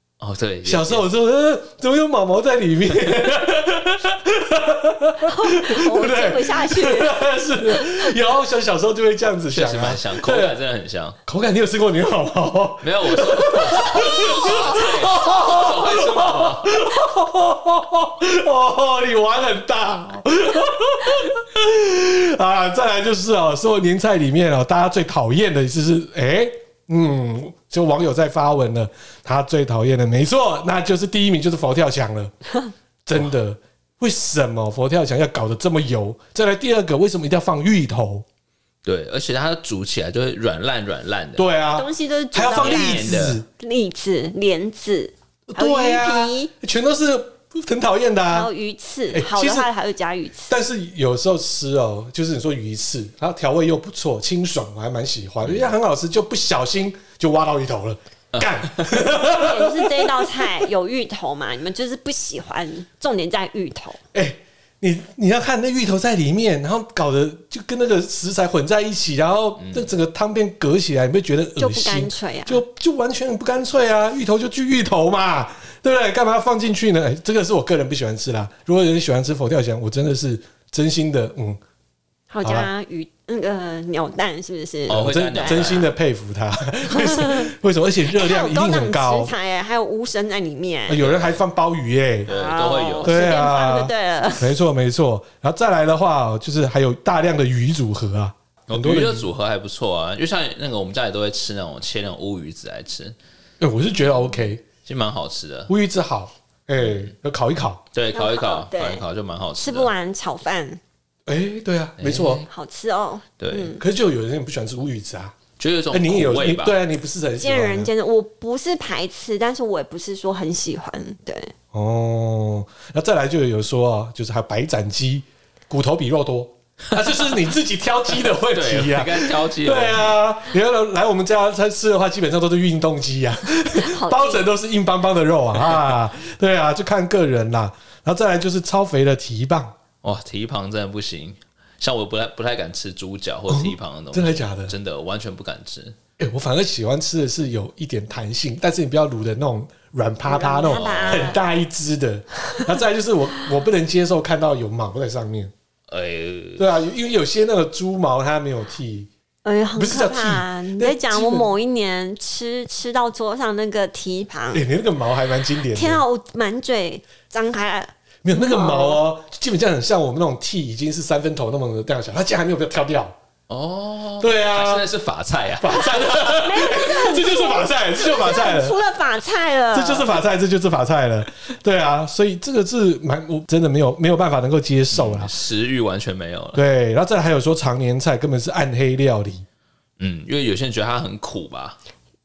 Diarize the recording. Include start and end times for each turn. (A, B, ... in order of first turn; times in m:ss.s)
0:00.2-0:01.0 A
0:00.6-0:10.6 B
0:05.3-0:07.2 C
0:09.5-0:11.2 A
0:11.2-0:32.3 B
0:12.8-0:16.9 A
0:33.0-0:38.2 B
0:38.8-0:41.5 A
0:41.4-0:43.4 B
0:41.8-0:46.5 C
0:42.5-0:43.4 A
0:45.5-0:48.5 B
0:48.3-0:50.6 C
0:49.1-0:49.7 B
0:50.5-1:00.5 B
0:55.4-0:55.7 A
0:58.3-0:59.0 A
0:59.2-1:04.0 C
1:04.1-1:21.6 B
1:09.6-1:09.9 A
1:11.6-1:12.6 C
1:22.3-1:25.8 C
1:22.4-1:22.7 B
1:24.9-1:25.9 A
1:24.9-1:29.3 B
1:26.9-1:27.4 C
1:28.1-1:31.0 C
1:30.9-1:32.3 B
1:31.0-1:31.4 A
1:32.2-1:34.6 C
1:32.3-1:33.3 A
1:33.0-1:39.3 B
1:38.7-1:43.1 A
1:43.6-1:44.6 B
1:44.8-1:45.7 A
1:45.7-1:47.8 B
1:47.9-1:49.9 A
1:48.1-1:49.0 C
1:49.6-1:50.8 C
1:51.3-1:52.4 B
1:52.0-1:52.5 A
1:52.5-1:53.8 C
1:53.4-1:53.8 A
1:53.8-1:55.4 B
1:55.6-1:56.8 A
1:55.9-1:57.9 B
1:57.4-2:01.5 C
2:01.7-2:19.7 B
2:08.3-2:10.2 A
2:13.7-2:14.5 C
2:20.0-2:26.0 A
2:23.5-2:24.7 B
2:26.2-2:35.5 B
2:30.2-2:31.4 C
2:30.7-2:31.4 A
2:35.9-2:36.6 A
2:36.6-2:39.1 B
2:39.4-2:44.6 C
2:39.8-2:41.5 B
2:44.5-2:46.0 B
2:45.7-2:49.0 C
2:48.2-2:53.1 B
2:53.5-2:56.3 A
2:54.2-2:54.9 B
2:55.6-2:58.8 B
2:56.0-3:00.2 C
2:59.7-3:05.3 B
3:04.9-3:06.6 A
3:06.5-3:09.4 B
3:10.0-3:11.8 A